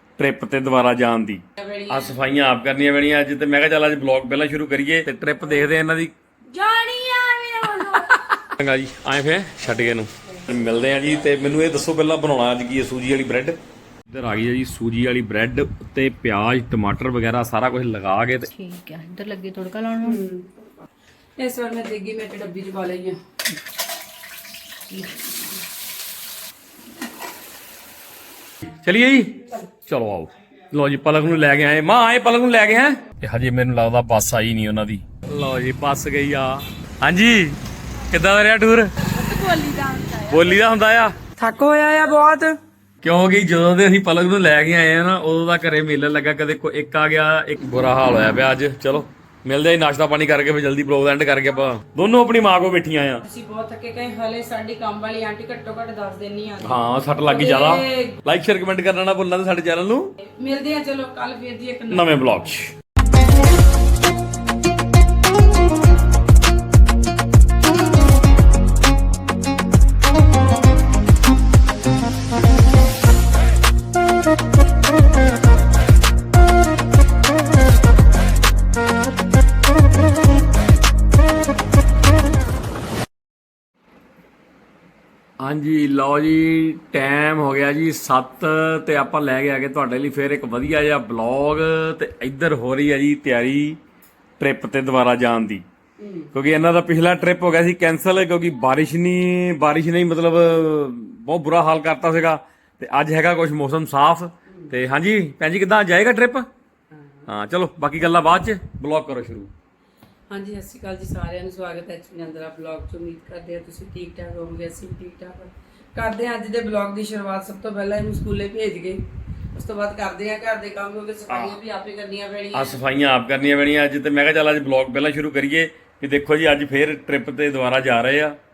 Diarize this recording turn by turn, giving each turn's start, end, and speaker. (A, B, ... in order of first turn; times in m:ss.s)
0:00.2-0:06.1 A
0:01.6-0:02.2 B
0:06.5-0:07.9 B
0:07.9-0:13.6 A
0:14.1-0:18.5 A
0:18.5-0:20.2 C
0:20.0-0:20.6 B
0:21.4-0:23.2 B
0:24.9-0:25.2 C
0:28.6-0:37.6 A
0:38.1-0:38.9 A
0:39.0-0:40.4 B
0:40.3-0:41.2 A
0:41.4-0:42.5 B
0:43.0-0:53.2 A
0:53.2-0:58.2 B
0:56.6-1:00.1 A
1:00.4-1:02.1 B
1:01.9-1:02.7 A
1:25.4-1:33.8 A
1:34.4-1:35.6 A
1:36.0-1:36.3 B
1:36.3-1:46.5 A
1:47.2-1:49.5 A
1:50.3-2:02.8 B
2:01.3-2:01.6 A
2:02.5-2:08.4 A